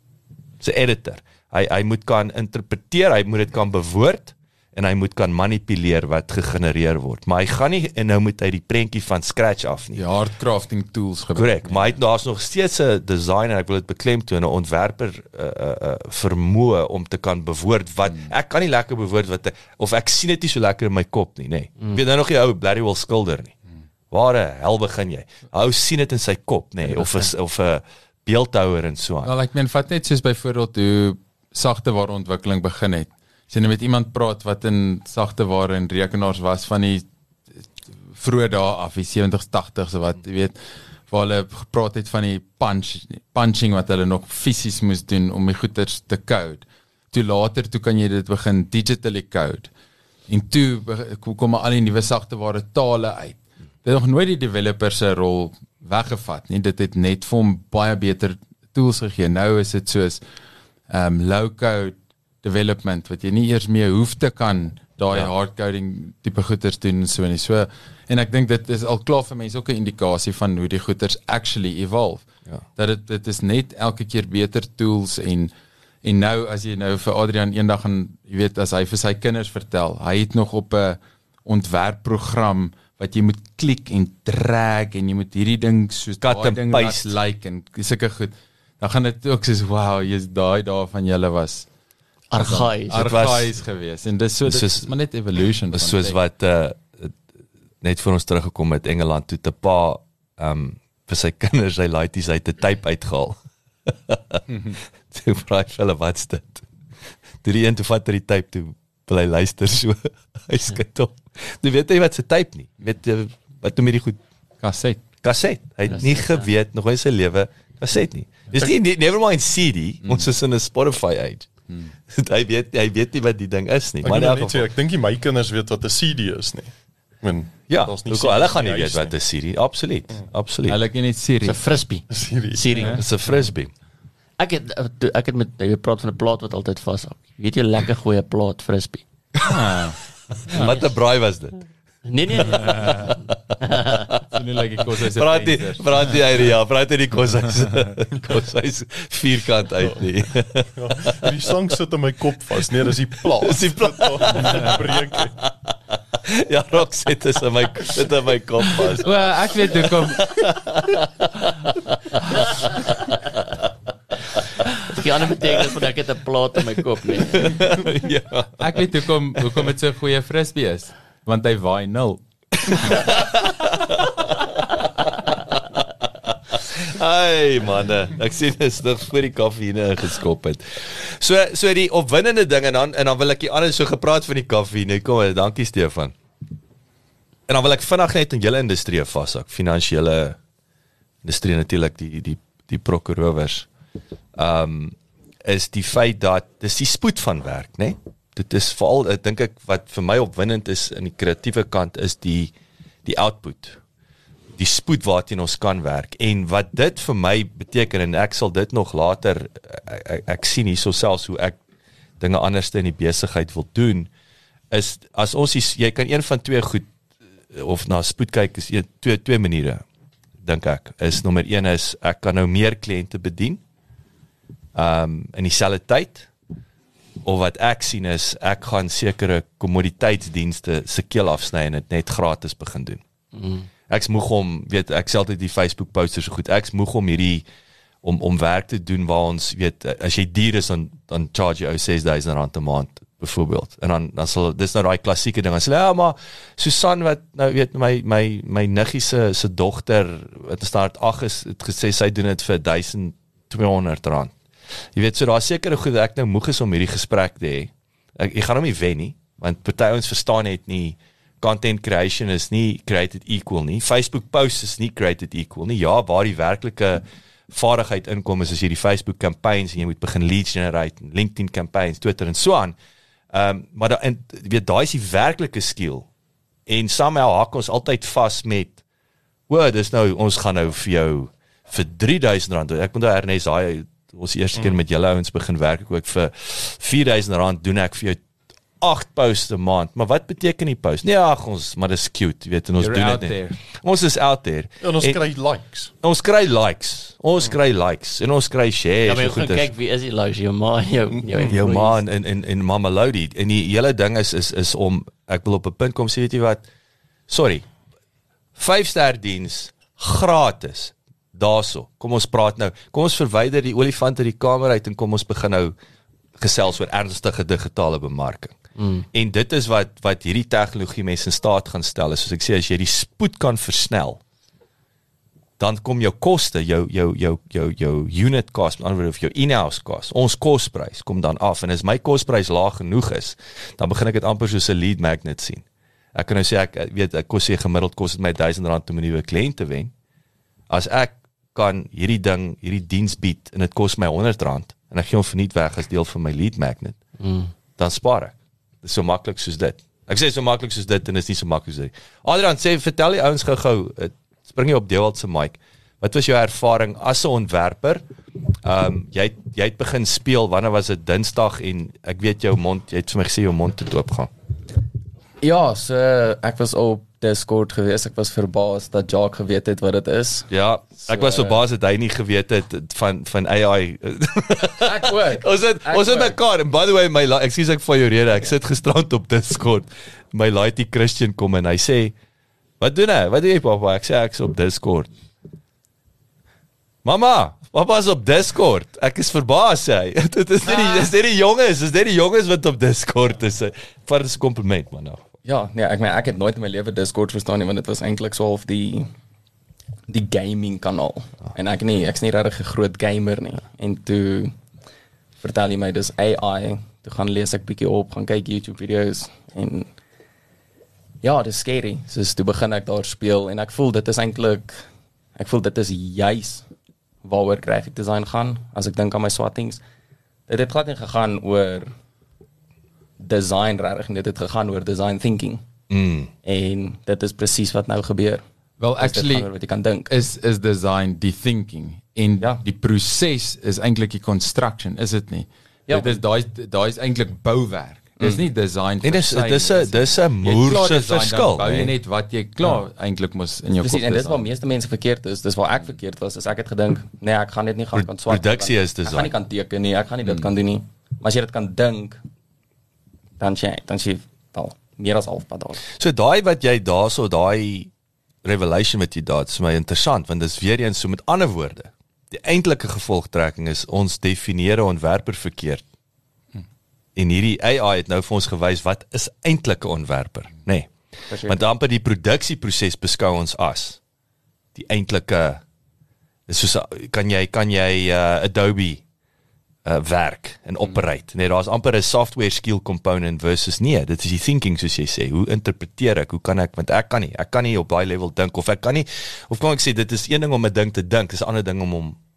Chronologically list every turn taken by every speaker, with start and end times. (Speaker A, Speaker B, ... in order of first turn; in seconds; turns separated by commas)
Speaker A: 0.6-10.0, Speaker B: 9.9-11.9, Speaker A: 11.4-23.6, Speaker A: 24.1-29.3, Speaker B: 29.2-37.1, Speaker B: 38.1-40.6, Speaker B: 41.1-49.7, Speaker B: 50.3-60.2, Speaker B: 60.9-75.5, Speaker B: 76.0-91.7, Speaker A: 86.2-87.2, Speaker C: 92.3-93.1, Speaker B: 92.4-96.2, Speaker A: 92.9-93.5, Speaker A: 94.5-94.9, Speaker A: 95.7-97.2, Speaker A: 97.8-103.4, Speaker A: 103.9-106.7, Speaker A: 107.4-114.2, Speaker B: 114.6-115.0, Speaker A: 115.2-121.5, Speaker C: 116.0-116.4, Speaker B: 120.0-120.3, Speaker A: 122.1-124.7, Speaker D: 124.0-126.7, Speaker D: 127.2-129.1, Speaker A: 127.7-130.8, Speaker B: 130.7-131.6, Speaker C: 131.4-133.0, Speaker D: 132.1-132.8, Speaker A: 132.9-133.7, Speaker C: 134.4-139.1, Speaker B: 139.4-140.7, Speaker A: 140.5-141.6, Speaker C: 142.1-144.1, Speaker B: 144.3-146.2, Speaker A: 145.2-151.3, Speaker D: 150.8-155.3, Speaker A: 153.3-159.2, Speaker B: 159.0-160.4, Speaker A: 159.8-163.6, Speaker C: 164.8-167.7, Speaker A: 164.9-165.5, Speaker A: 167.2-168.8, Speaker B: 168.6-172.2, Speaker A: 172.6-186.2, Speaker B: 172.8-173.1, Speaker A: 187.5-190.4, Speaker A: 191.2-193.7, Speaker A: 194.3-202.5, Speaker A: 203.1-203.8, Speaker A: 204.6-211.6, Speaker A: 212.2-214.1, Speaker A: 214.7-216.9, Speaker A: 217.5-219.8, Speaker A: 220.4-223.6, Speaker A: 224.8-226.3, Speaker A: 227.2-233.0, Speaker C: 233.3-233.7, Speaker A: 233.9-237.4, Speaker A: 238.0-254.3, Speaker A: 254.9-272.8, Speaker A: 273.3-276.1, Speaker A: 276.7-278.8, Speaker A: 279.5-288.2, Speaker A: 288.8-295.2, Speaker B: 292.8-293.6, Speaker D: 294.8-295.9, Speaker A: 296.0-299.7, Speaker C: 299.0-302.0, Speaker D: 301.2-301.6, Speaker A: 301.5-306.7, Speaker A: 307.3-307.6, Speaker A: 308.6-315.7, Speaker A: 316.4-318.6, Speaker C: 318.8-319.1, Speaker A: 319.1-324.2, Speaker A: 325.6-339.9, Speaker A: 340.7-347.0, Speaker C: 347.2-347.5, Speaker A: 347.8-358.1, Speaker A: 358.6-364.3, Speaker E: 365.4-370.5, Speaker A: 370.5-382.1, Speaker E: 371.1-371.6, Speaker E: 374.8-376.4, Speaker A: 382.8-385.1, Speaker A: 387.1-395.2, Speaker E: 395.4-399.1, Speaker E: 400.1-404.6, Speaker E: 405.4-409.9, Speaker E: 411.2-414.9, Speaker E: 415.4-416.7, Speaker E: 417.2-419.8, Speaker E: 420.5-421.9, Speaker E: 423.2-425.6, Speaker A: 425.9-426.3, Speaker E: 426.4-428.4, Speaker B: 428.8-429.5, Speaker E: 429.0-430.1, Speaker B: 430.1-444.5, Speaker E: 435.9-436.2, Speaker A: 439.0-441.9, Speaker E: 443.8-452.2, Speaker A: 447.9-449.3, Speaker E: 453.4-455.8, Speaker A: 456.0-457.9, Speaker A: 458.4-465.9, Speaker A: 467.2-470.9, Speaker E: 471.3-471.6, Speaker A: 471.4-474.0, Speaker A: 474.8-475.6, Speaker A: 476.5-479.0, Speaker A: 479.9-492.2